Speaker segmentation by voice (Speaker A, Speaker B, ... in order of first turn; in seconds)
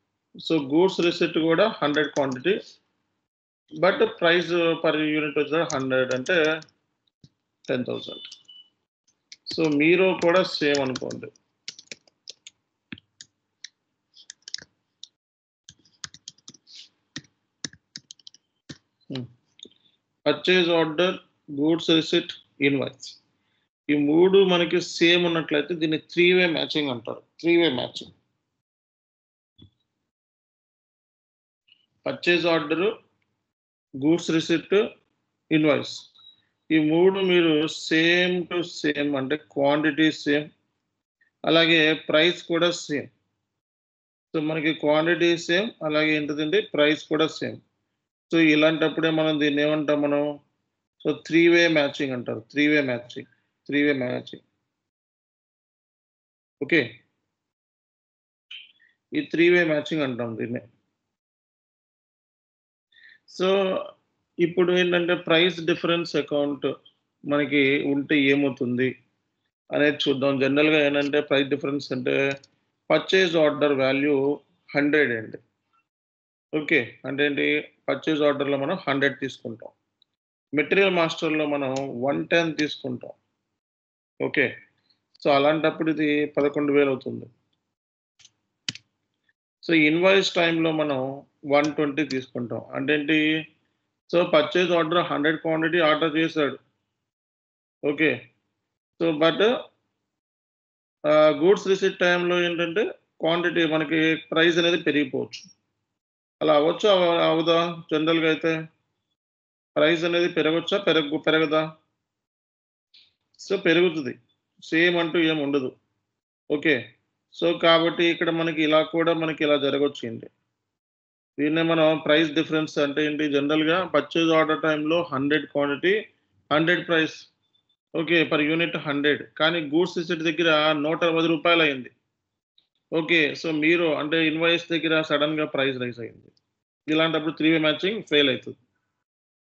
Speaker A: 0.4-2.5, 3.8-6.4, 7.7-8.2, 9.5-11.3, 20.2-23.2, 23.9-28.1, 32.0-32.9, 34.0-34.8, 35.5-36.0, 36.7-40.5, 41.5-43.1, 44.3-47.6, 48.3-50.2, 51.0-54.4, 59.1-60.6, 64.4-66.7, 67.3-68.9, 69.7-72.1, 72.9-74.2, 74.7-75.4, 76.5-79.7, 80.5-83.1, 85.2-87.3, 89.6-93.2, 94.1-96.6, 97.8-98.1, 99.0-99.5, 101.1-105.5, 106.4-108.5, 109.8-111.6, 113.4-114.1, 114.7-115.7, 117.3-120.3, 121.4-126.0, 126.5-127.2, 128.0-131.9, 132.9-136.3, 136.9-138.6